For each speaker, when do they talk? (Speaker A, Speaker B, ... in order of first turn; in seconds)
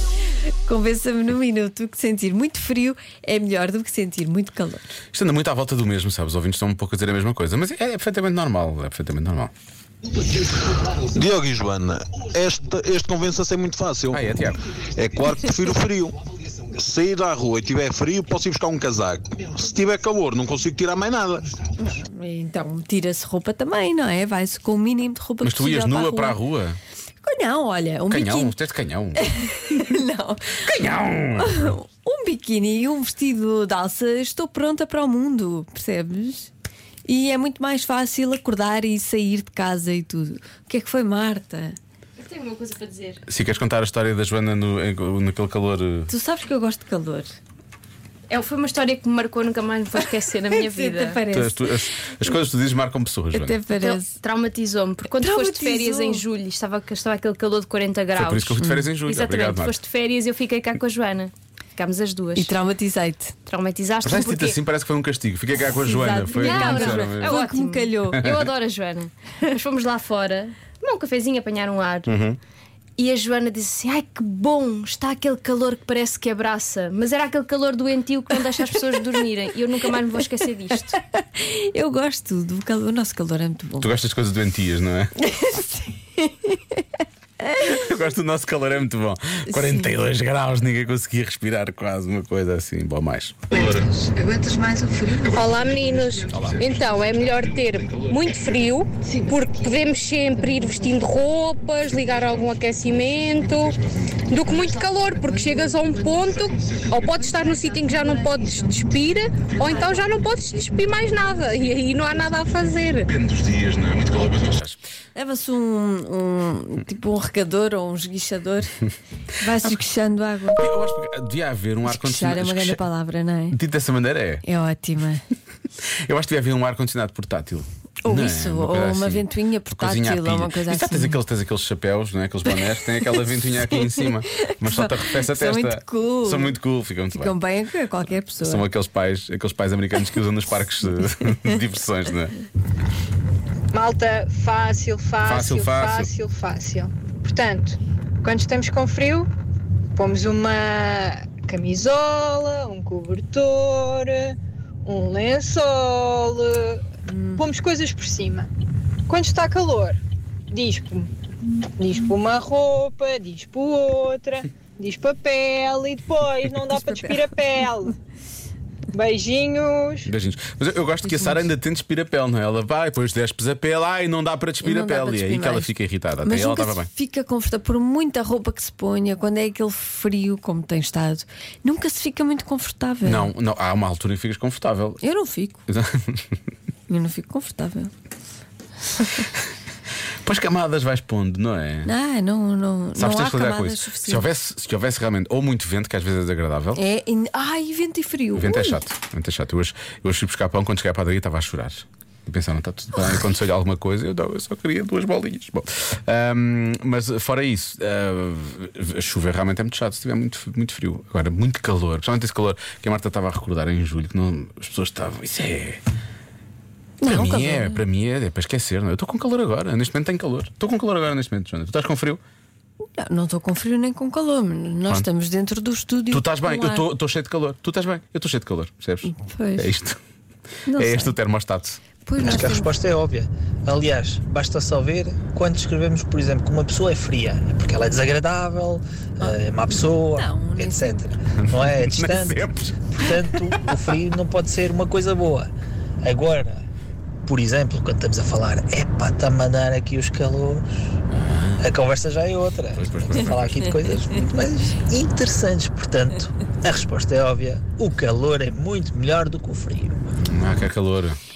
Speaker A: 0.7-4.9, 21.8-26.4, 27.2-28.6, 29.2-36.5, 37.1-41.8, 46.1-47.3, 49.9-51.8, 53.3-54.2, 55.0-56.2, 62.4-63.4, 65.8-68.2, 80.9-83.9, 85.2-86.8, 89.5-89.9, 93.5-95.9, 99.0-99.8, 100.4-100.9, 115.2-118.8, 119.4-120.7, 121.8-123.6, 124.4-125.2, 128.0-131.2, 132.6-132.9, 133.7-136.6, 137.1-138.7, 157.1-157.5, 166.8-167.2, 171.1-171.4, 174.6-183.3, 185.0-185.6, 186.9-187.9, 191.8-194.3, 196.8-198.8, 217.0-217.8, 223.0-226.8, 229.1-229.7, 230.7-231.2, 232.0-232.7, 239.9-241.1
Speaker B: 5.1-9.5, 14.1-14.6, 25.4-26.8, 28.1-29.3, 30.6-31.8, 43.3-46.1, 51.3-53.6, 58.1-59.8, 64.0-67.4, 68.2-68.5, 72.1-72.4, 83.8-85.1, 87.5-93.8, 95.4-98.1, 103.5-104.4, 109.4-110.0, 113.1-114.8, 120.5-122.8, 123.5-124.4, 126.0-137.4, 138.4-142.3, 145.2-146.1, 170.1-176.9, 183.0-185.0, 185.7-186.3, 190.2-191.9, 193.0-196.8, 198.3-215.8, 217.0-222.2, 226.1-230.0, 230.8-231.8, 241.5-243.3, 251.1-251.7, 252.7-253.8, 260.2-261.2
Speaker C: 10.2-21.5
Speaker D: 42.2-43.2, 48.3-51.2, 53.8-62.5, 63.5-64.6, 66.3-72.2, 73.0-81.0
Speaker E: 95.3-103.8, 104.3-113.1
Speaker F: 143.7-149.3, 150.0-156.8, 157.4-158.5, 159.1-160.0, 160.5-161.1, 161.8-167.9, 168.9-170.1
Speaker G: 232.2-245.5, 246.0-246.6, 247.2-250.9, 251.6-260.0